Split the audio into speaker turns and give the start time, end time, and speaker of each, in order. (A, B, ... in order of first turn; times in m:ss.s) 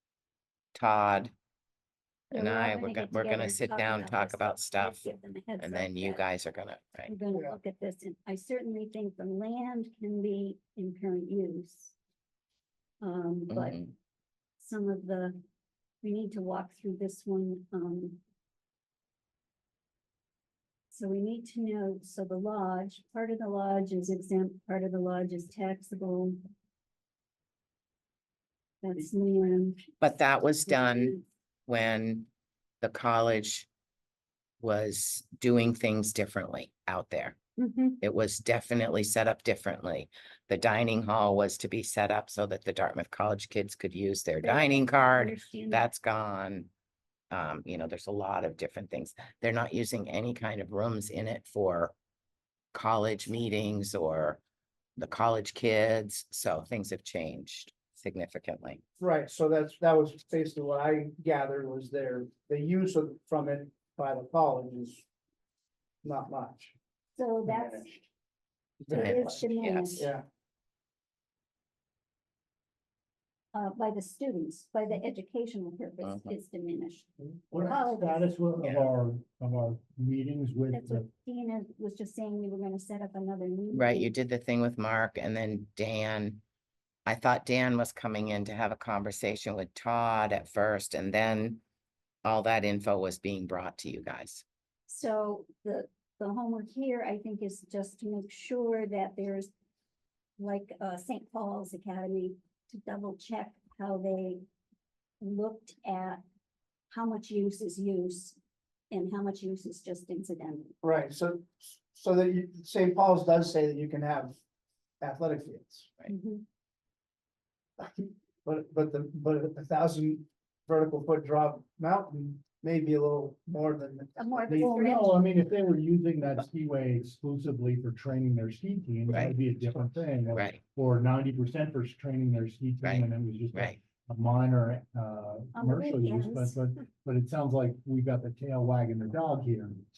0:00.7-0:01.3 A
0:02.3-0:06.2 B
0:02.3-0:07.1 A
0:07.0-0:11.9 B
0:13.0-0:13.8 B
0:13.5-0:13.9 A
0:14.6-0:15.4 B
0:16.0-0:18.2 B
0:20.9-0:26.4 B
0:28.8-0:29.9 B
0:30.0-0:32.3 A
0:30.7-0:31.2 B
0:32.8-0:33.7 A
0:34.6-0:37.4 A
0:37.6-0:38.0 B
0:38.0-0:46.7 A
0:44.4-0:45.9 B
0:47.3-0:51.9 A
0:52.7-0:54.4 A
0:55.0-0:58.8 A
0:59.0-1:05.0 C
1:06.0-1:06.7 C
1:07.2-1:08.0 B
1:07.5-1:07.8 C
1:08.8-1:09.4 C
1:08.9-1:10.0 A
1:08.9-1:10.1 B
1:10.0-1:10.2 C
1:13.5-1:18.3 B
1:16.0-1:16.3 A
1:17.5-1:21.1 D
1:18.6-1:18.9 A
1:20.7-1:24.1 B
1:23.7-1:26.4 A
1:27.0-1:31.6 A
1:32.2-1:34.4 A
1:34.9-1:39.5 B
1:40.4-1:44.4 B
1:45.2-1:46.2 B
1:46.9-1:48.4 B
1:48.9-1:50.8 B
1:50.8-1:54.4 C
1:55.0-1:56.0 C
1:56.1-1:56.4 B
1:57.8-2:05.0 C
2:04.2-2:05.3 B
2:04.6-2:19.8 D
2:09.1-2:09.3 A
2:10.3-2:10.6 A
2:12.8-2:13.8 A
2:15.5-2:16.8 B